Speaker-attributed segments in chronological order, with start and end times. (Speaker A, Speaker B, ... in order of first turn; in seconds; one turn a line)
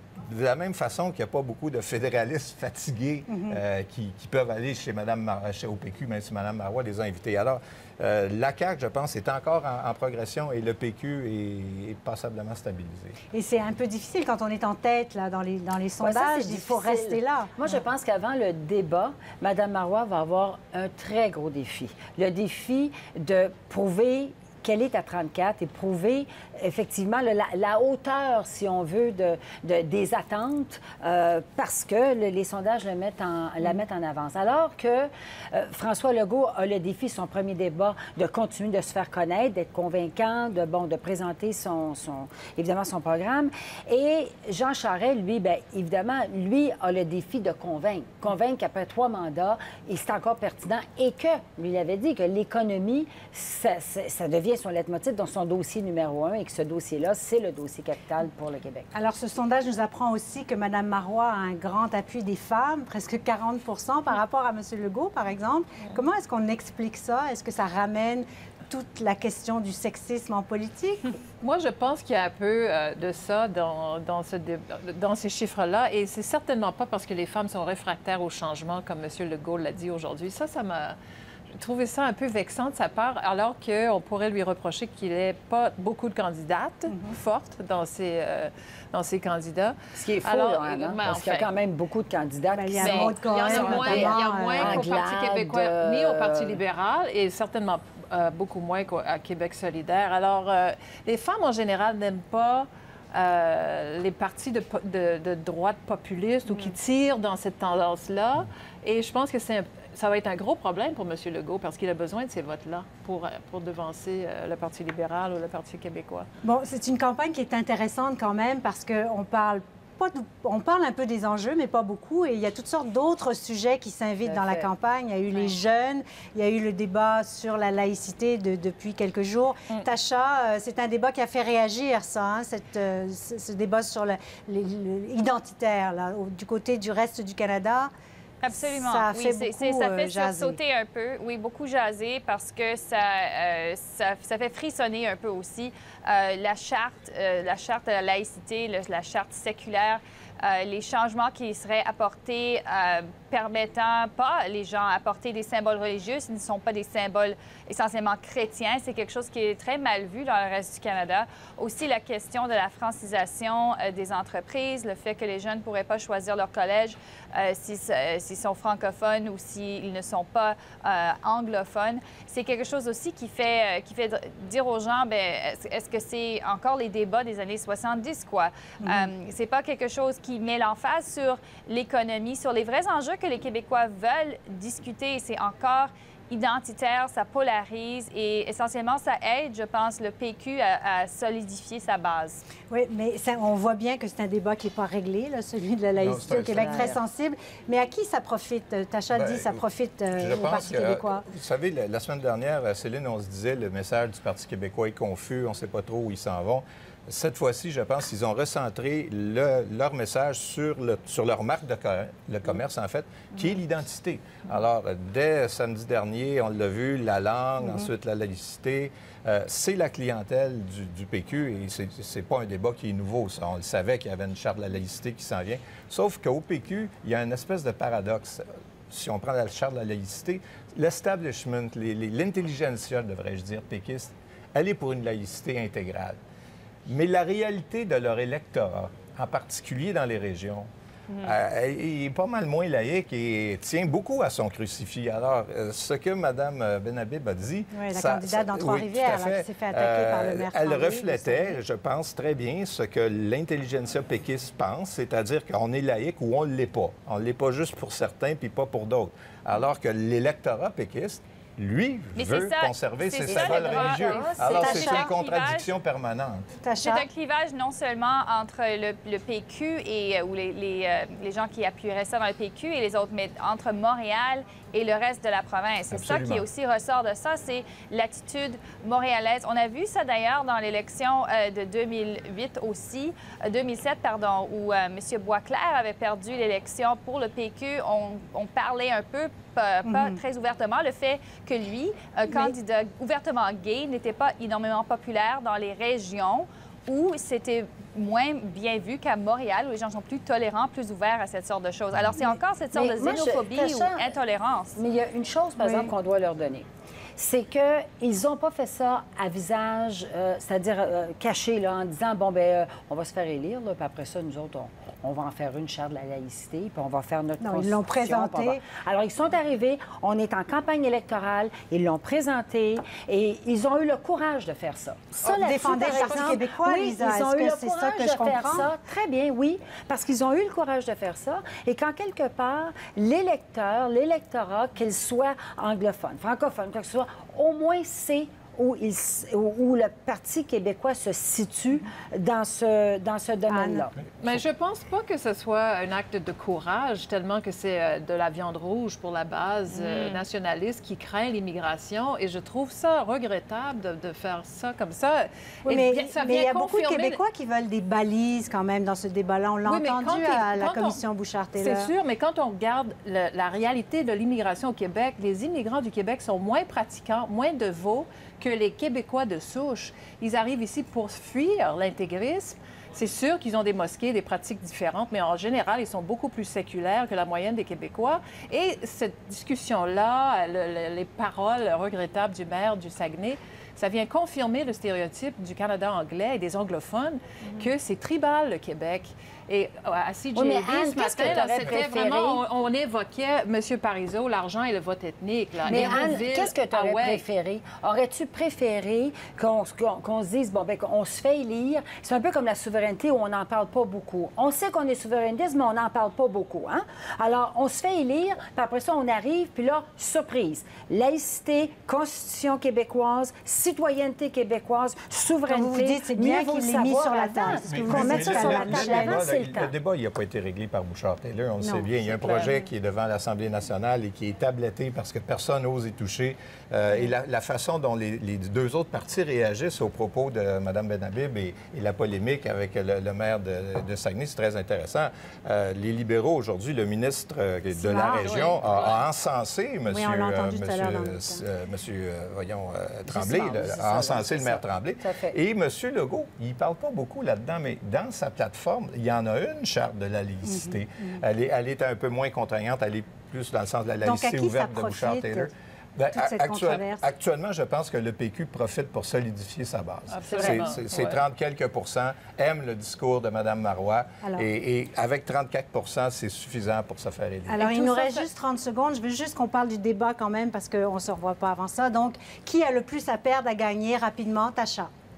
Speaker A: 0.3-13.2
Speaker B: 3.3-3.6
Speaker B: 13.3-17.5
Speaker C: 16.0-58.9
Speaker B: 58.9-71.1
Speaker D: 71.4-81.0
Speaker D: 81.6-91.5
Speaker B: 86.9-87.1
Speaker C: 89.9-96.6
Speaker B: 92.5-94.9
Speaker E: 92.8-93.1
Speaker D: 92.8-116.3
Speaker B: 116.4-137.9
Speaker C: 124.2-124.7
Speaker E: 138.4-192.4
Speaker B: 138.5-140.6
Speaker B: 178.8-179.1
Speaker B: 192.7-201.2
Speaker A: 195.9-196.9
Speaker C: 196.4-197.0
Speaker A: 199.1-236.2
Speaker A: 236.9-240.7
Speaker A: 241.2-266.5
Speaker B: 247.7-251.6
Speaker E: 262.1-265.7
Speaker C: 263.3-264.6
Speaker B: 264.5-265.1
Speaker B: 266.6-267.1
Speaker E: 266.8-304.8
Speaker A: 275.9-276.4
Speaker B: 289.9-290.2
Speaker C: 302.7-304.2
Speaker C: 304.8-343.9
Speaker B: 305.6-305.9
Speaker B: 317.4-318.6
Speaker B: 325.2-328.7
Speaker D: 325.9-326.3
Speaker B: 343.5-343.9
Speaker D: 344.2-357.2
Speaker E: 349.7-350.2
Speaker B: 355.6-361.9
Speaker D: 359.6-361.0
Speaker D: 361.6-397.2
Speaker C: 390.3-392.4
Speaker C: 395.6-419.7
Speaker B: 415.5-419.2
Speaker A: 417.6-467.6
Speaker B: 421.6-421.9
Speaker D: 422.0-422.6
Speaker B: 437.7-438.5
Speaker D: 438.5-439.0
Speaker B: 439.9-441.4
Speaker C: 443.1-445.4
Speaker B: 450.4-451.1
Speaker B: 454.0-455.5
Speaker B: 456.1-457.1
Speaker D: 460.1-461.2
Speaker C: 460.3-460.6
Speaker B: 467.4-474.9
Speaker D: 467.6-468.3